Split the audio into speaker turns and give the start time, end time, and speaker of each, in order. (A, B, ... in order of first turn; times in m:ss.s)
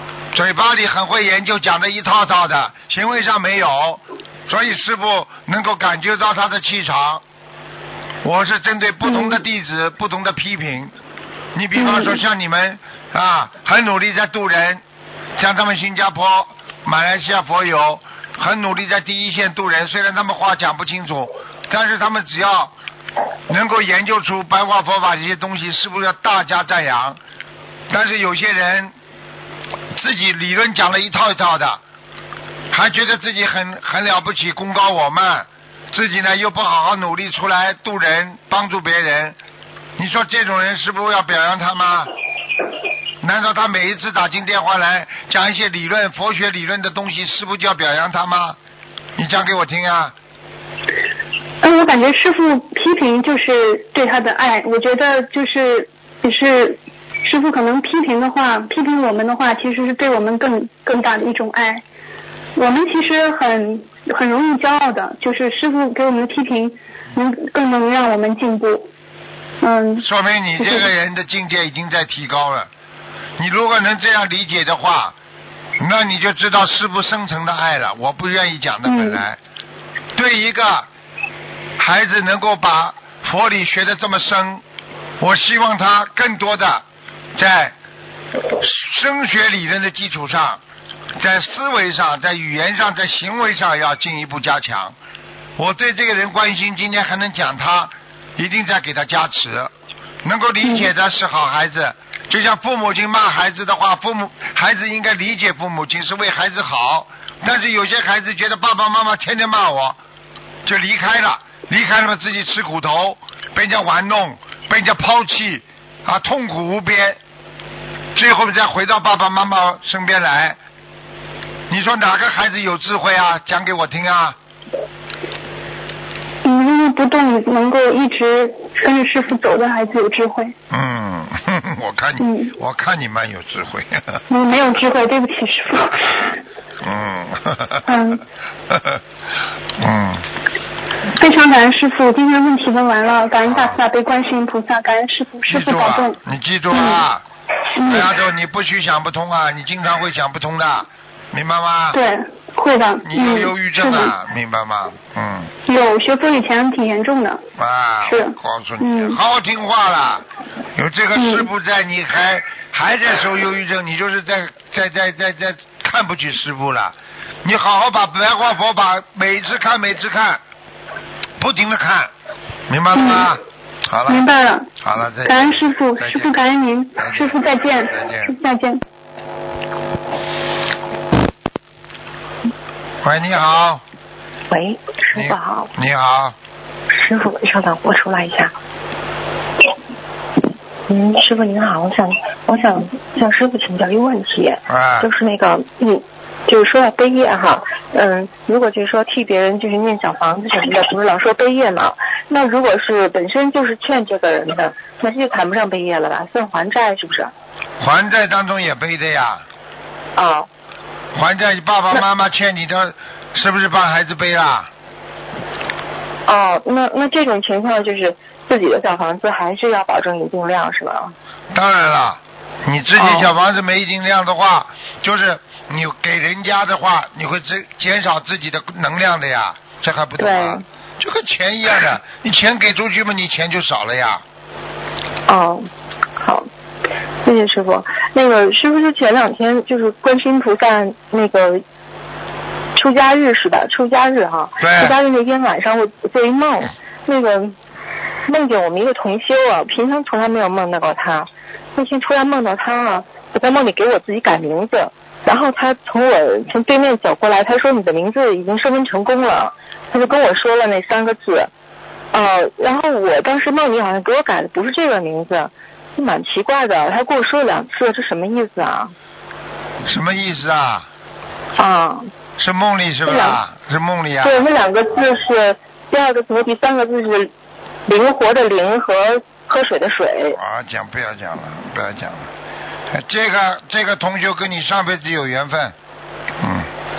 0:00.3-0:07.2 A
0:08.2-0:10.9 A
0:09.1-0:09.3 B
0:11.5-0:14.8 A
0:11.8-0:12.2 B
0:15.4-0:22.7 A
0:23.5-0:27.2 A
0:27.9-0:28.9 A
0:29.9-0:31.8 A
0:32.7-0:39.4 A
0:40.0-0:42.1 A
0:43.2-0:48.6 A
0:49.2-0:50.1 A
0:51.6-1:01.8 B
1:02.5-1:08.9 B
1:09.6-1:10.0 B
1:10.0-1:12.7 A
1:13.4-1:15.2 A
1:15.8-1:19.4 A
1:18.8-1:19.2 B
1:20.2-1:20.9 A
1:21.8-1:24.6 A
1:25.2-1:26.8 A
1:27.4-1:27.7 A
1:28.6-1:30.6 A
1:31.2-1:34.9 A
1:35.6-1:39.7 A
1:40.2-1:50.0 A
1:50.6-1:57.2 A
1:58.1-2:00.6 A
2:01.7-2:04.4 A
2:06.4-2:10.5 B
2:10.7-2:14.2 A
2:12.2-2:12.5 B
2:14.3-2:16.4 B
2:16.8-2:17.9 A
2:17.8-2:18.2 B
2:18.7-2:19.0 A
2:19.8-2:20.2 A
2:21.2-2:26.2 B
2:23.4-2:23.8 A
2:25.5-2:27.2 A
2:26.7-2:27.0 B
2:27.8-2:28.1 B
2:27.8-2:32.0 A
2:31.9-2:34.1 B
2:33.0-2:35.5 A
2:35.7-2:37.4 B
2:37.6-2:50.4 A
2:38.0-2:39.2 B
2:41.1-2:41.5 B
2:51.4-2:52.1 A
2:52.7-2:54.2 A
2:52.9-2:53.3 B
2:54.1-2:54.7 B
2:54.8-2:56.4 A
2:55.2-2:58.8 B
2:57.0-2:58.3 A
3:03.0-3:03.8 A
3:04.5-3:05.7 C
3:05.1-3:06.4 A
3:06.9-3:08.5 C
3:10.9-3:27.3 C
3:14.7-3:15.1 A
3:27.8-3:29.4 A
3:30.2-3:30.5 C
3:31.1-3:34.7 A
3:36.3-3:41.1 C
3:41.5-3:54.2 A
3:43.0-3:43.3 C
3:50.2-3:50.6 C
3:55.3-3:55.7 C
3:56.2-3:56.5 C
3:57.2-4:01.6 C
4:02.7-4:07.6 C
4:04.6-4:05.0 A
4:08.2-4:21.5 C
4:22.1-4:28.9 C
4:29.8-4:30.9 A
4:31.6-4:32.1 C
4:32.4-4:34.4 A
4:33.0-4:33.4 C
4:34.2-4:37.3 C
4:37.9-4:40.4 C
4:40.4-4:42.3 A
4:42.9-4:45.7 A
4:46.4-4:46.7 A